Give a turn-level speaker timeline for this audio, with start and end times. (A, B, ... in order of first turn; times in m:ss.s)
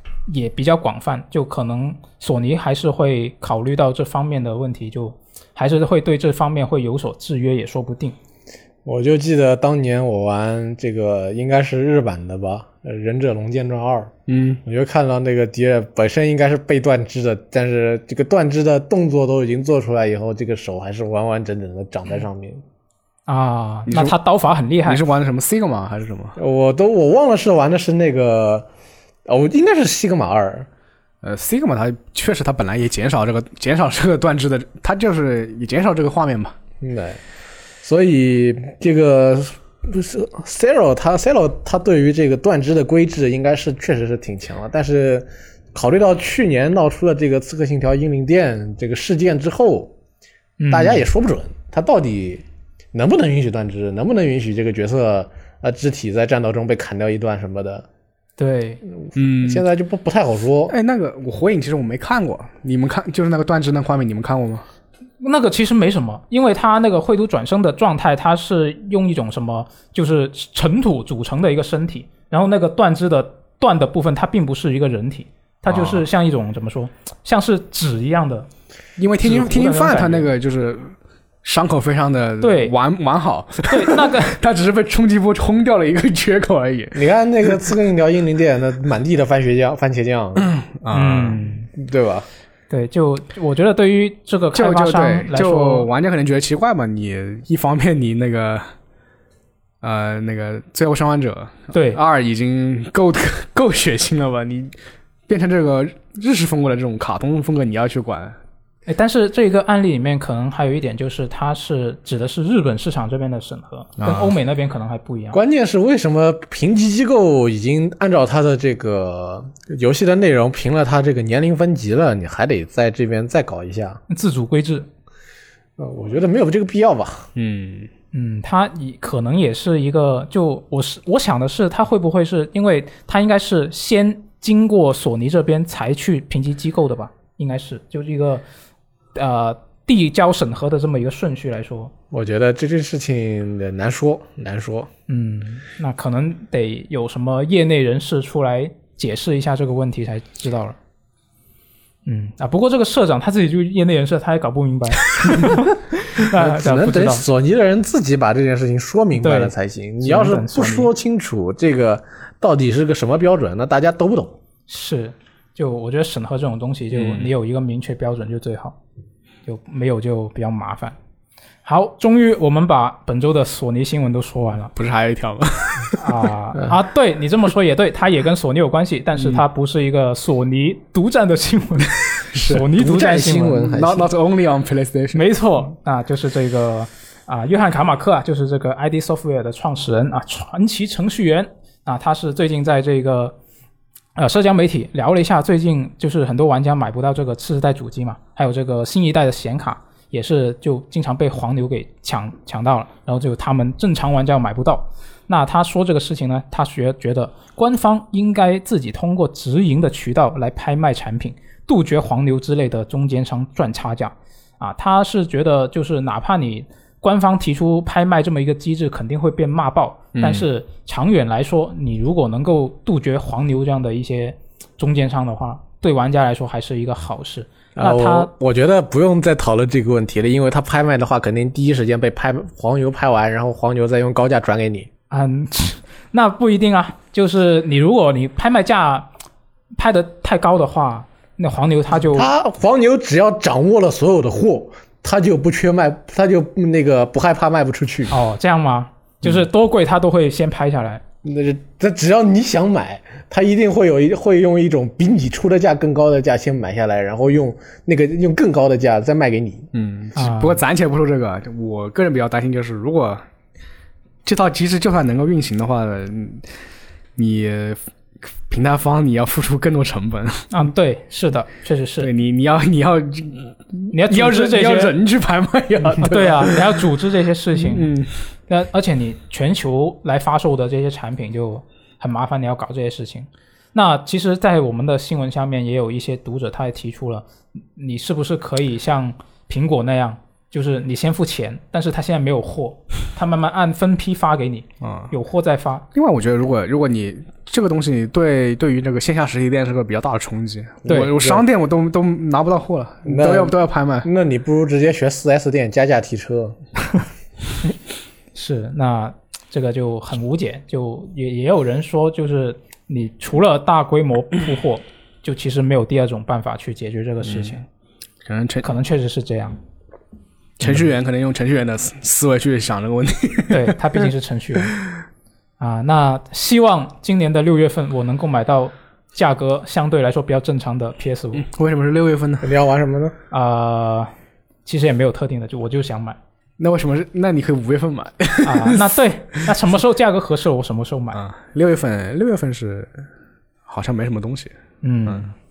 0:00.3-0:08.1 A
0:08.8-0:14.1 B
0:14.3-0:14.6 C
0:14.6-0:22.6 B
0:23.3-0:25.0 A
0:23.9-0:24.1 C
0:24.9-0:26.3 C
0:26.4-0:28.7 B
0:29.3-0:30.7 B
0:31.2-0:36.6 C
0:36.8-0:37.2 B
0:37.8-0:49.9 B
0:50.6-0:51.0 A
0:50.7-0:52.4 B
0:52.9-0:57.9 B
0:58.4-0:58.8 A
0:59.0-1:00.7 B
0:59.1-0:59.6 C
1:00.7-1:04.6 C
1:05.2-1:18.5 A
1:15.7-1:16.0 C
1:19.0-1:27.5 C
1:19.2-1:20.3 A
1:22.4-1:22.7 A
1:23.7-1:24.4 A
1:27.0-1:30.5 B
1:30.6-1:31.4 C
1:30.9-1:31.7 A
1:31.8-1:32.3 B
1:32.7-1:35.9 A
1:34.5-1:38.6 C
1:39.8-1:44.7 C
1:41.7-1:42.0 A
1:45.3-1:48.4 C
1:48.9-1:55.4 A
1:54.0-1:54.3 C
1:55.3-2:04.0 B
2:04.1-2:04.9 A
2:05.8-2:07.3 B
2:07.4-2:07.9 C
2:08.1-2:18.4 A
2:19.1-2:21.9 A
2:22.1-2:24.9 B
2:25.1-2:30.8 A
2:32.0-2:37.2 A
2:36.3-2:44.4 B
2:39.2-2:40.9 A
2:44.7-2:48.8 A
2:46.9-2:47.3 C
2:49.4-2:51.0 A
2:51.6-2:54.7 A
2:54.8-2:56.0 C
2:56.0-3:03.7 A
2:59.2-2:59.4 C
3:02.3-3:02.7 C
3:02.7-3:04.1 B
3:03.6-3:05.2 C
3:05.1-3:13.4 A
3:14.2-3:48.3 A
3:40.1-3:40.4 C
3:47.8-3:54.9 B
3:55.1-3:59.1 A
3:59.8-4:02.3 A
4:02.1-4:08.1 B
4:08.1-4:11.0 A
4:11.2-4:19.7 B
4:19.7-4:23.2 C
4:20.2-4:20.6 A
4:24.2-4:26.4 C
4:27.2-4:27.8 C
4:28.5-4:30.4 C
4:30.5-4:32.1 A
4:32.0-4:36.8 C
4:33.9-4:35.0 A
4:36.0-4:37.9 A
4:37.6-4:38.2 C
4:38.5-4:55.8 A
4:54.8-4:55.1 C
4:55.9-5:04.1 C
5:00.9-5:01.4 B
5:03.0-5:06.6 B
5:08.3-5:17.6 A
5:17.3-5:17.5 C
5:18.3-5:18.7 C
5:18.6-5:19.6 A
5:20.6-5:23.8 C
5:23.5-5:24.7 A
5:25.6-5:31.4 A
5:31.4-5:32.5 C
5:32.4-5:33.2 B
5:33.3-5:34.1 A
5:34.6-5:36.2 A
5:36.6-5:38.8 C
5:38.4-5:41.2 A
5:41.1-5:43.0 C
5:43.7-5:44.6 C
5:44.8-5:45.3 A